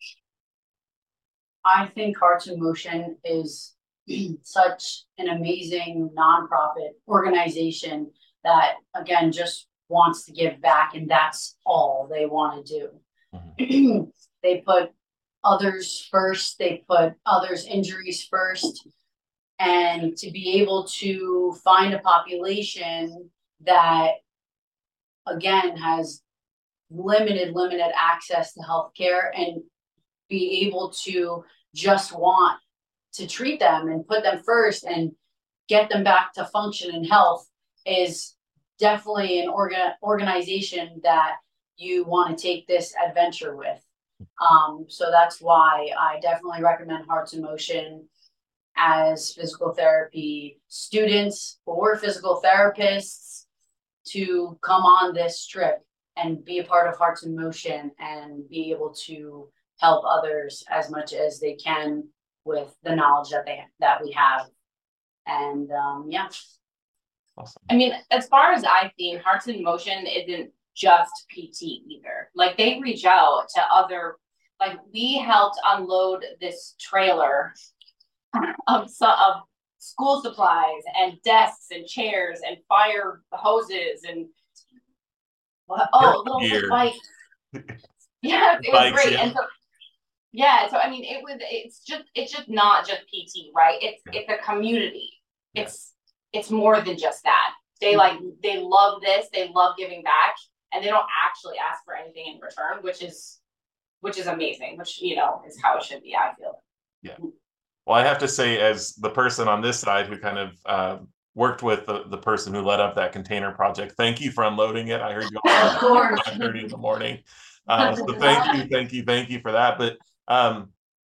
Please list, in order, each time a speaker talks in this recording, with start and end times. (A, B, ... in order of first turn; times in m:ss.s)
0:01.6-0:13.0 A
0:13.6-0:14.9 A
0:15.4-0:18.8 A
0:19.6-0:24.2 A
0:25.3-0:26.2 A
0:26.9-0:29.6 A
0:30.3-0:32.6 A
0:33.1-0:35.1 A
0:35.7-0:43.8 A
0:44.4-0:48.1 A
0:48.8-0:53.4 A
0:54.0-1:04.5 A
1:05.3-1:06.3 A
1:07.4-1:07.7 B
1:07.7-1:17.5 C
1:18.3-1:24.3 C
1:25.7-1:27.0 C
1:26.0-1:26.8 B
1:28.2-1:29.5 C
1:28.7-1:29.3 B
1:30.3-1:43.4 C
1:44.0-1:46.6 C
1:47.9-2:00.7 B
1:55.5-1:56.3 A
1:55.8-1:56.0 C
1:57.9-1:58.5 A